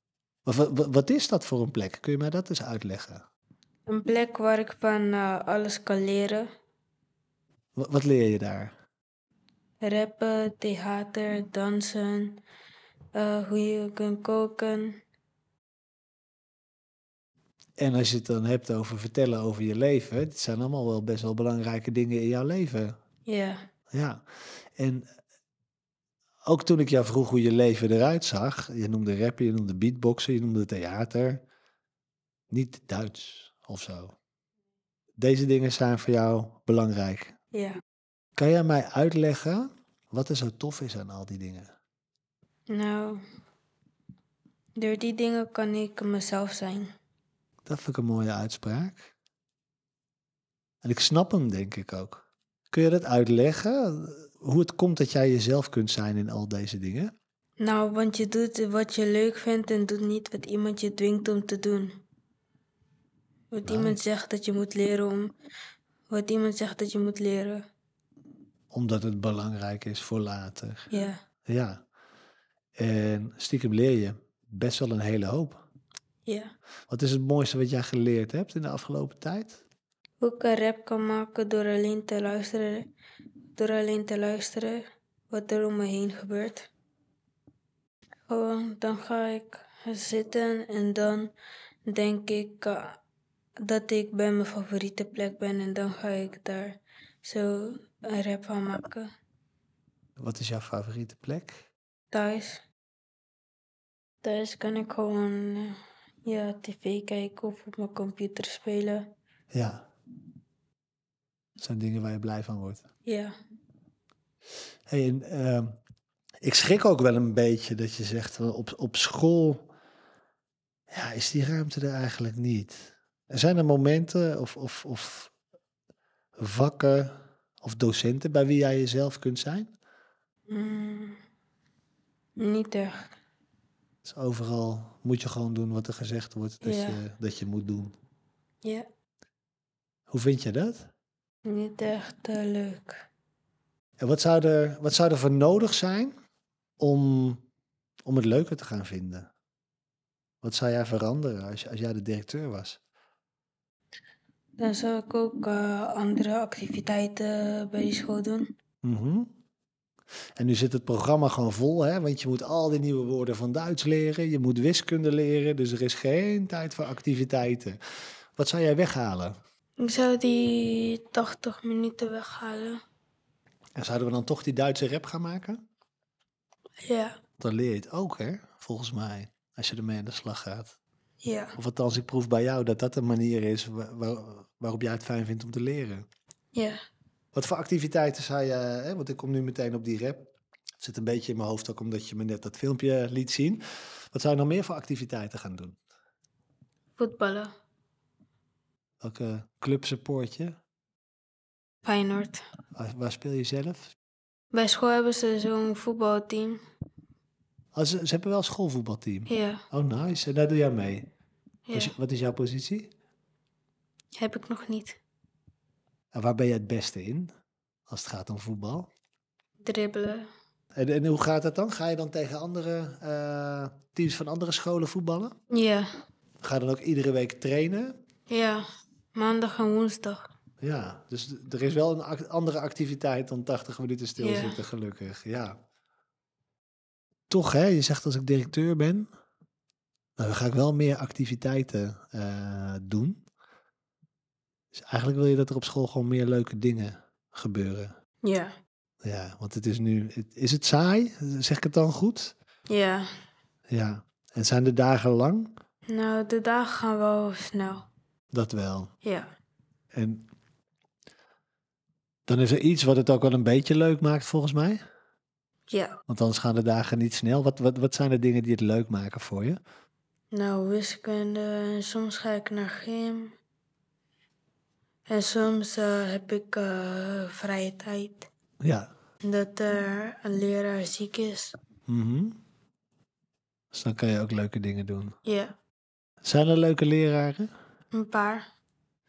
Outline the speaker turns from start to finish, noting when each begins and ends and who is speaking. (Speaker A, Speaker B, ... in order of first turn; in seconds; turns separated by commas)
Speaker A: 0.5-3.2, Speaker B: 3.9-6.5, Speaker A: 7.8-8.7, Speaker B: 9.8-12.4, Speaker B: 13.2-15.0, Speaker A: 17.8-23.0, Speaker B: 23.3-23.6, Speaker A: 23.9-24.2, Speaker A: 24.8-25.1, Speaker A: 26.5-31.4, Speaker A: 32.5-34.2, Speaker A: 35.2-37.3, Speaker A: 38.4-41.7, Speaker B: 42.7-43.2, Speaker B: 44.8-46.9, Speaker A: 47.7-49.1, Speaker A: 50.8-57.1, Speaker B: 57.6-62.0, Speaker B: 63.5-65.3, Speaker A: 63.6-64.0, Speaker B: 66.1-67.6, Speaker A: 68.7-70.9, Speaker B: 70.9-71.2, Speaker A: 71.5-71.8, Speaker A: 72.8-75.6, Speaker B: 76.3-76.5, Speaker A: 76.9-79.6, Speaker B: 80.2-82.9, Speaker B: 83.6-86.7, Speaker B: 88.3-91.3, Speaker B: 91.9-93.0, Speaker B: 93.6-99.1, Speaker A: 100.2-101.6, Speaker B: 102.1-102.6, Speaker B: 104.2-109.1, Speaker A: 109.5-109.8, Speaker A: 111.6-112.8, Speaker B: 113.0-113.3, Speaker A: 114.9-115.8, Speaker A: 116.4-119.7, Speaker A: 120.9-125.3, Speaker A: 126.4-129.7, Speaker B: 130.5-131.2, Speaker B: 132.4-133.1, Speaker A: 134.1-137.9, Speaker B: 136.6-137.0, Speaker A: 140.1-140.9, Speaker B: 141.5-143.1, Speaker A: 144.0-146.1, Speaker A: 146.8-147.4, Speaker A: 148.1-149.3, Speaker A: 150.4-152.8, Speaker B: 154.6-158.5, Speaker A: 158.8-159.3, Speaker A: 160.4-167.8, Speaker A: 168.4-169.3, Speaker B: 169.8-172.8, Speaker A: 173.8-175.6, Speaker B: 176.8-177.2, Speaker A: 177.4-180.8, Speaker B: 181.2-181.6, Speaker A: 181.6-186.1, Speaker A: 187.3-190.3, Speaker A: 190.8-195.8, Speaker B: 197.0-197.5, Speaker A: 199.0-200.6, Speaker B: 201.8-202.4, Speaker A: 202.7-203.9, Speaker B: 204.5-206.6, Speaker A: 207.8-211.1, Speaker B: 209.3-209.6, Speaker B: 211.7-211.9, Speaker A: 211.7-212.9, Speaker B: 214.2-215.0, Speaker A: 216.1-217.3, Speaker A: 217.9-218.9, Speaker B: 219.6-220.3, Speaker A: 220.8-225.3, Speaker B: 225.5-225.9, Speaker A: 226.4-228.0, Speaker B: 228.3-230.3, Speaker A: 230.6-235.6, Speaker B: 234.2-234.6, Speaker A: 237.3-239.1, Speaker A: 240.2-243.2, Speaker A: 244.7-247.9, Speaker B: 248.2-248.6, Speaker A: 249.0-252.3, Speaker B: 252.7-253.1, Speaker A: 253.7-255.6, Speaker B: 255.9-257.9, Speaker A: 258.3-258.9, Speaker B: 259.0-259.3, Speaker A: 259.9-260.3, Speaker A: 262.3-264.8, Speaker B: 265.7-266.0, Speaker A: 266.1-269.6, Speaker B: 270.3-273.3, Speaker B: 275.1-278.3, Speaker A: 278.6-278.9, Speaker B: 279.2-281.6, Speaker A: 281.9-282.4, Speaker A: 283.7-285.1, Speaker B: 285.2-285.5, Speaker A: 286.2-287.5, Speaker B: 287.9-288.4